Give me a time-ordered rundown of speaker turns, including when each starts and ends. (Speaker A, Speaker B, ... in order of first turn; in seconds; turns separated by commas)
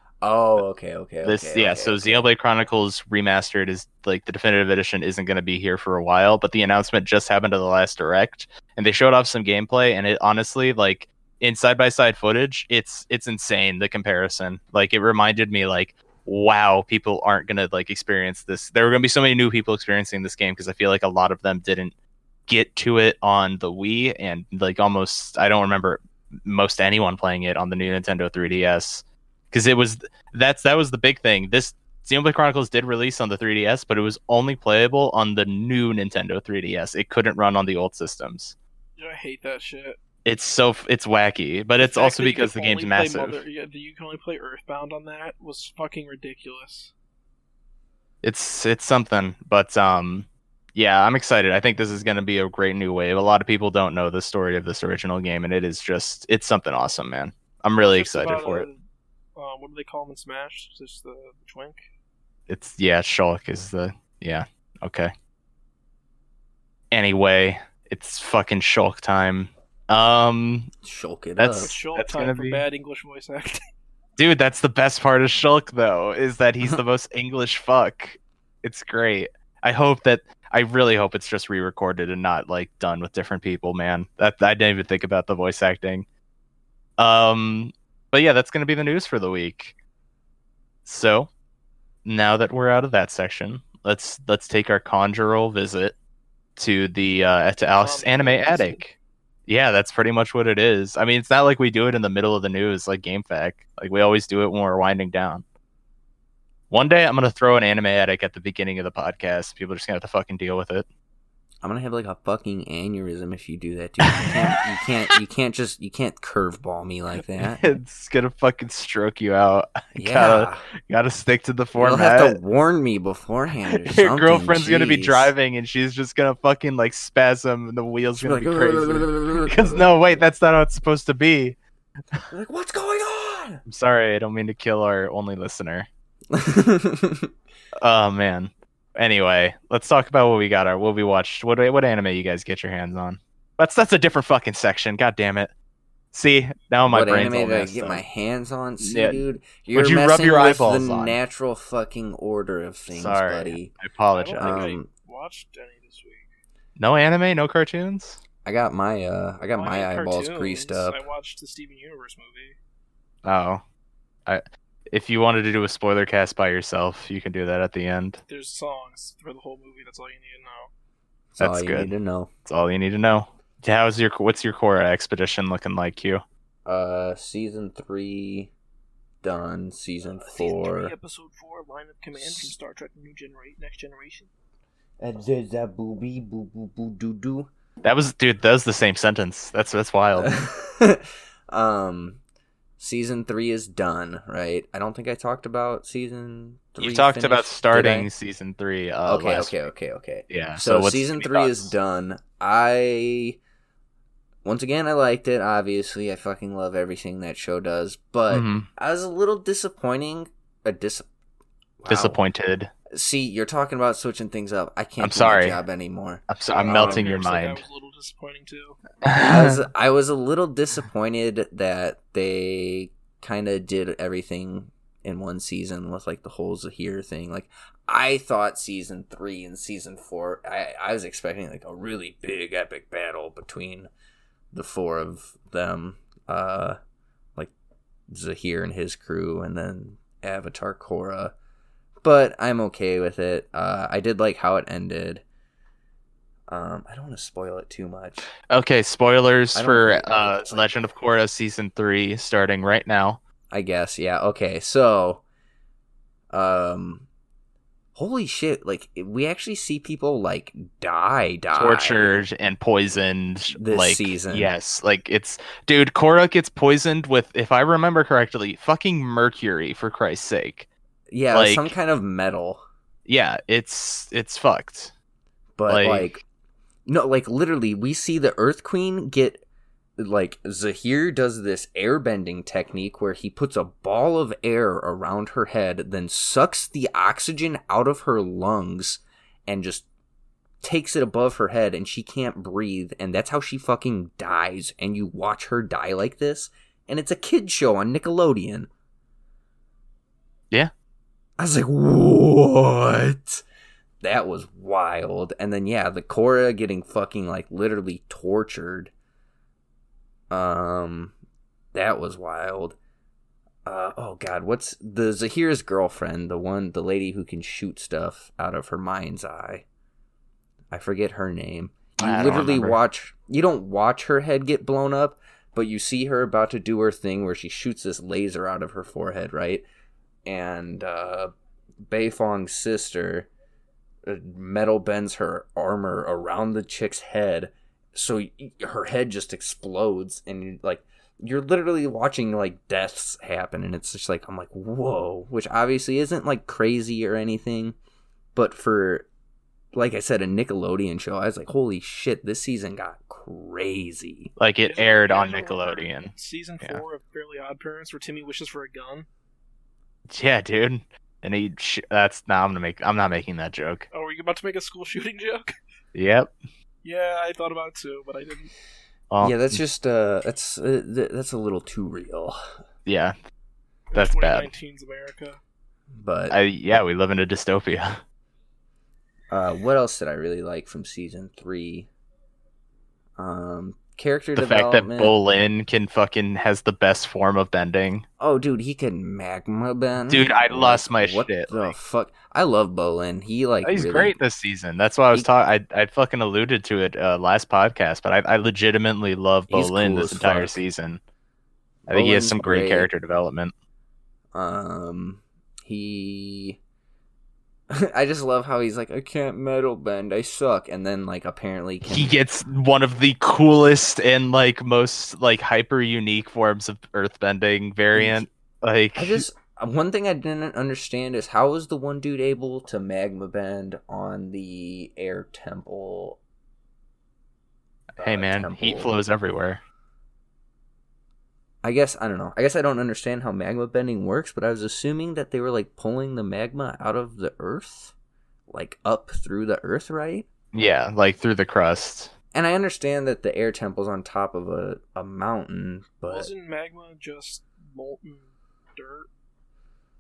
Speaker A: 0.2-2.3, Speaker B: 1.2-21.9, Speaker B: 22.5-38.5, Speaker C: 39.0-40.0, Speaker B: 40.2-43.4, Speaker C: 41.8-46.9, Speaker B: 48.2-58.7, Speaker C: 57.8-58.8, Speaker C: 59.3-61.9, Speaker B: 62.5-65.1, Speaker B: 66.9-70.7, Speaker A: 70.8-71.8, Speaker B: 71.4-72.6, Speaker C: 71.5-73.6, Speaker B: 74.2-86.0, Speaker B: 87.0-89.8, Speaker B: 90.9-91.3, Speaker B: 92.0-96.0, Speaker B: 96.6-99.0, Speaker C: 97.7-98.8, Speaker B: 99.5-105.4, Speaker B: 106.7-110.9, Speaker A: 111.6-117.7, Speaker B: 114.0-114.6, Speaker B: 117.4-122.4, Speaker A: 120.0-120.7, Speaker A: 121.8-125.3, Speaker B: 123.7-131.6, Speaker A: 128.2-130.2, Speaker A: 132.3-133.6, Speaker B: 133.7-135.9, Speaker A: 136.3-137.3, Speaker B: 137.8-145.5, Speaker B: 146.1-148.0, Speaker A: 146.9-153.7, Speaker B: 148.8-151.2, Speaker B: 152.9-154.6, Speaker C: 154.1-156.3, Speaker A: 154.4-154.9, Speaker B: 156.8-158.2, Speaker A: 158.4-161.0, Speaker C: 159.5-162.6, Speaker B: 163.2-163.6, Speaker B: 164.2-168.2, Speaker C: 168.3-170.7, Speaker A: 171.3-172.3, Speaker B: 171.4-171.9, Speaker B: 172.4-176.2, Speaker A: 176.6-178.5, Speaker A: 179.2-180.9, Speaker C: 180.0-184.3, Speaker A: 182.2-182.5, Speaker A: 185.0-187.5, Speaker B: 187.8-190.4, Speaker A: 190.1-192.2, Speaker A: 192.8-198.1, Speaker B: 196.8-199.5, Speaker A: 199.0-203.4, Speaker B: 200.3-201.7, Speaker A: 204.4-211.1, Speaker B: 208.3-208.7, Speaker A: 211.8-212.2, Speaker B: 211.9-212.7, Speaker A: 212.9-217.1, Speaker B: 215.0-215.6, Speaker B: 216.3-217.6, Speaker C: 216.5-218.8, Speaker B: 219.0-219.6, Speaker A: 219.2-233.9, Speaker A: 234.5-236.8, Speaker A: 238.1-241.3, Speaker A: 242.0-245.2, Speaker A: 246.5-248.3, Speaker B: 248.5-253.2, Speaker A: 249.5-250.6, Speaker A: 253.5-255.2, Speaker A: 256.3-257.1, Speaker A: 257.9-262.2, Speaker B: 261.5-270.7, Speaker A: 263.5-264.5, Speaker A: 271.1-272.6, Speaker B: 271.3-271.7, Speaker B: 273.1-274.9, Speaker A: 275.6-276.2, Speaker B: 275.7-276.2, Speaker A: 276.9-279.4, Speaker A: 280.0-289.9, Speaker A: 290.6-298.7, Speaker A: 301.4-303.4, Speaker A: 304.0-308.9, Speaker A: 310.3-311.1, Speaker A: 311.7-312.8, Speaker A: 313.6-319.7, Speaker A: 320.7-329.7, Speaker B: 322.0-322.8, Speaker A: 330.2-333.3, Speaker A: 334.0-347.8, Speaker A: 348.3-349.1, Speaker A: 349.7-354.3, Speaker B: 354.4-356.8, Speaker C: 354.6-359.1, Speaker B: 360.1-363.9, Speaker C: 363.9-365.5, Speaker B: 365.9-366.4, Speaker C: 366.8-368.5, Speaker B: 369.1-369.6, Speaker A: 369.2-372.6, Speaker B: 372.9-373.2, Speaker C: 373.9-375.4, Speaker B: 373.9-374.5, Speaker A: 375.9-376.4, Speaker B: 376.3-378.0, Speaker A: 379.3-381.9, Speaker A: 383.2-385.1, Speaker B: 384.3-388.0, Speaker A: 388.2-394.1, Speaker B: 390.1-391.8, Speaker B: 393.6-401.0, Speaker A: 399.5-400.6, Speaker A: 401.9-402.9, Speaker B: 401.9-403.5, Speaker A: 404.3-406.6, Speaker A: 407.7-412.1, Speaker B: 411.9-419.2, Speaker A: 417.9-418.2, Speaker A: 419.0-426.2, Speaker B: 427.9-429.6, Speaker A: 428.0-428.9, Speaker A: 431.6-437.9, Speaker A: 438.5-440.3, Speaker B: 440.5-442.1, Speaker A: 442.3-446.3, Speaker C: 446.1-449.1